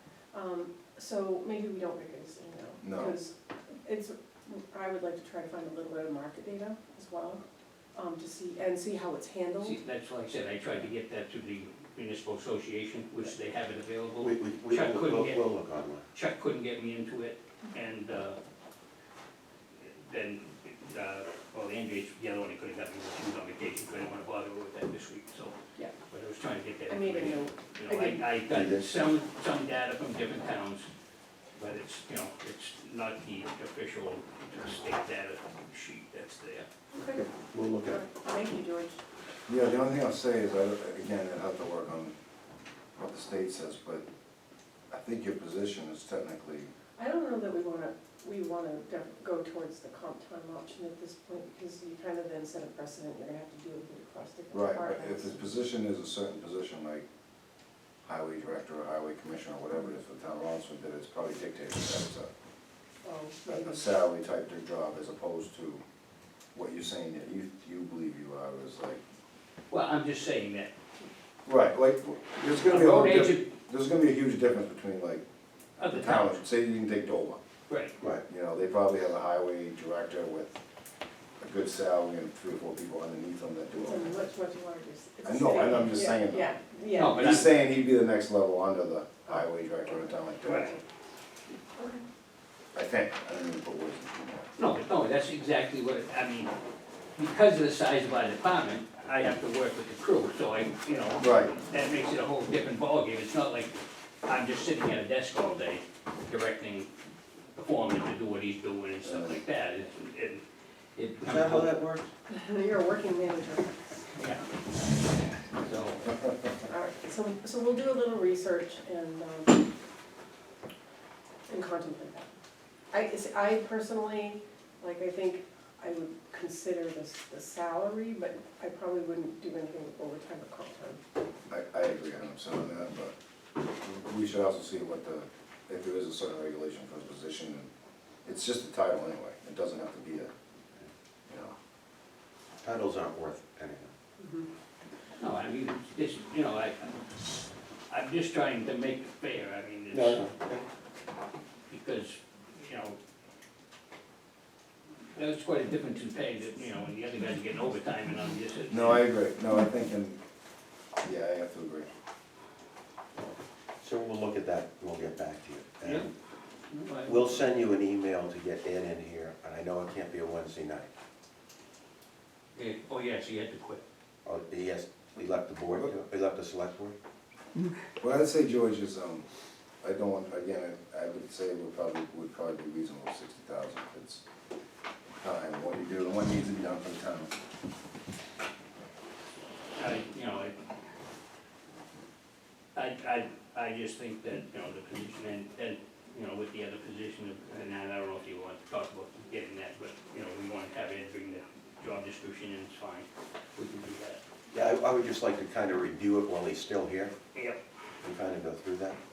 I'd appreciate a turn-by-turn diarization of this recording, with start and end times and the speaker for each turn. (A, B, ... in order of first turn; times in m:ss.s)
0:00.3-0:09.8 A
0:02.8-0:03.2 B
0:09.6-0:15.4 C
0:14.2-0:16.0 D
0:16.1-0:18.4 C
0:19.8-0:25.6 C
0:26.1-0:30.9 C
0:26.9-0:28.2 A
0:28.5-0:28.9 D
0:31.6-0:36.7 C
0:36.9-0:37.2 A
0:37.5-0:38.0 D
0:37.8-0:39.0 A
0:39.5-0:42.1 B
0:43.0-0:44.0 B
0:44.9-0:46.7 B
0:47.0-0:55.4 A
0:54.5-0:57.0 B
0:58.0-1:02.3 B
1:03.0-1:03.8 A
1:03.5-1:05.8 B
1:06.5-1:09.0 B
1:09.7-1:10.7 C
1:11.4-1:15.2 B
1:12.5-1:13.5 C
1:15.8-1:16.3 C
1:15.9-1:17.4 B
1:17.7-1:18.0 C
1:18.0-1:20.6 B
1:21.4-1:24.3 B
1:23.8-1:27.2 A
1:25.2-1:30.8 B
1:27.0-1:27.6 C
1:30.4-1:30.7 C
1:30.4-1:30.8 A
1:31.8-1:32.0 A
1:32.7-1:34.5 B
1:34.6-1:36.5 C
1:37.2-1:46.9 C
1:41.2-1:41.5 B
1:47.6-1:50.4 C
1:49.0-1:49.3 B
1:51.0-1:51.7 C
1:51.2-1:52.1 D
1:52.3-1:54.1 A
1:54.2-1:54.5 C
1:55.6-1:56.0 C
1:56.6-1:59.6 A
2:01.5-2:02.3 A
2:02.9-2:11.0 A
2:11.5-2:13.1 B
2:13.8-2:17.7 B
2:18.2-2:20.3 B
2:21.3-2:21.5 B
2:22.6-2:23.9 D
2:24.2-2:24.5 A
2:25.2-2:27.0 C
2:27.9-2:30.3 C
2:29.9-2:30.6 D
2:31.7-2:33.0 C
2:35.1-2:39.0 C
2:38.7-2:40.2 B
2:41.0-2:41.9 B
2:43.8-2:46.1 D
2:45.8-2:46.1 C
2:46.7-2:47.5 C
2:47.0-2:50.9 D
2:52.5-2:53.8 C
2:54.2-2:57.0 D
2:58.0-2:59.2 B
2:59.8-3:04.2 B
3:05.2-3:07.3 B
3:09.8-3:10.6 C
3:12.7-3:24.2 C
3:24.5-3:27.1 D
3:27.3-3:27.6 C
3:28.0-3:29.0 D